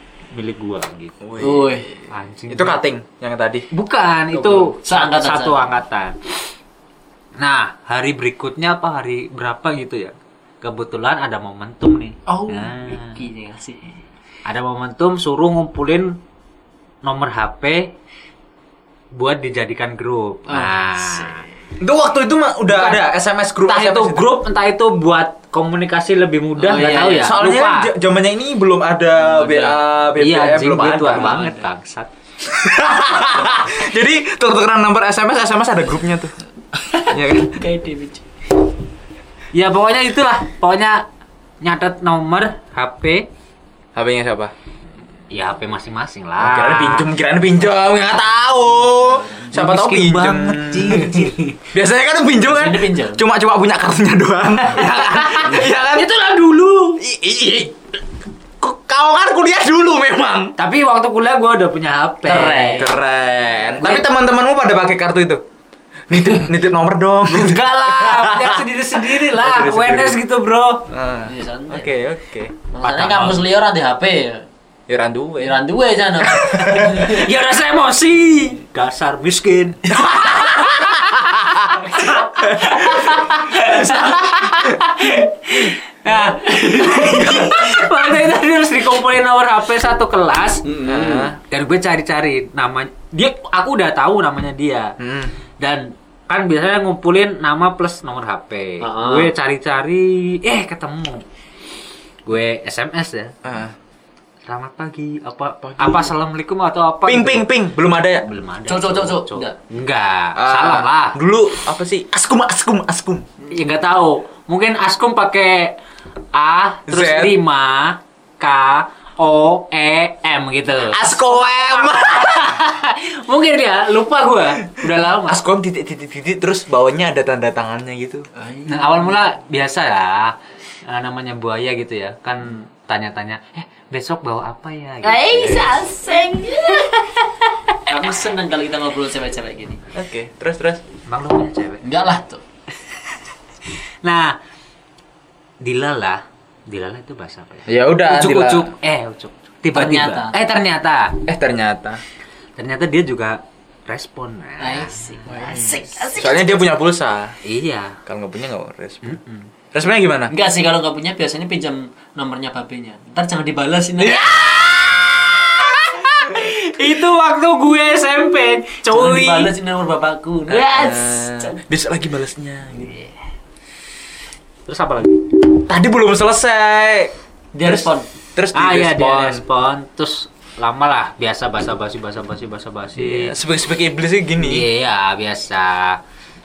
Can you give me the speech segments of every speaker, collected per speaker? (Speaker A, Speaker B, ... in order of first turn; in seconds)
Speaker A: 0.3-1.1, 2.1-2.8, 3.7-6.2, 7.4-13.2, 14.4-16.2, 17.0-17.9, 19.1-21.4, 22.7-23.0, 23.6-27.9, 30.2-32.1, 39.5-41.0, 41.6-43.3, 45.3-47.1, 49.5-51.5, 54.8-57.0, 60.6-62.9, 63.8-64.1, 67.3-70.9, 72.8-73.3, 77.0-90.6, 91.4-94.9, 95.6-101.2, 102.2-103.3, 104.5-107.5, 108.2-111.2, 113.5-115.8, 116.3-125.4, 128.7-135.9, 136.6-137.9, 141.1-141.8, 144.0-144.4, 145.6-151.2, 152.6-155.2, 157.4-158.0, 159.0-159.5, 164.4-169.5, 174.7-175.2, 178.5-183.3, 184.4-186.0
Speaker B: 1.2-1.8, 2.5-3.7, 21.8-24.3, 27.0-31.4, 32.4-36.3, 37.1-37.6, 43.9-44.5, 46.4-56.1, 57.0-57.8, 58.6-60.5, 62.7-65.4, 66.1-70.2, 70.9-72.6, 74.9-75.6, 76.2-77.1, 79.9-81.8, 82.4-84.0, 87.0-87.7, 90.8-91.4, 95.0-95.3, 103.4-103.7, 105.6-106.1, 107.0-108.2, 110.3-113.2, 116.9-117.4, 120.9-122.6, 125.2-128.3, 139.9-140.8, 147.7-148.7, 151.2-152.0, 155.3-157.3, 158.1-159.2, 159.7-160.3, 164.0-165.1, 170.5-173.0, 175.5-177.1, 177.6-179.4, 183.0-184.7
Speaker C: 1.4-2.0, 4.4-5.7, 12.3-13.8, 20.5-21.4, 26.6-27.3, 29.1-29.8, 31.1-31.7, 36.8-38.2, 48.6-49.6, 52.5-53.2, 62.3-62.9, 71.2-71.9, 72.7-74.4, 75.4-77.3, 86.4-87.3, 90.6-91.3, 98.8-99.3, 108.7-109.5, 128.3-129.2, 135.0-136.9, 137.8-139.8, 141.8-142.4, 149.7-150.4, 154.6-156.6, 160.3-164.6, 168.9-171.6, 177.5-178.1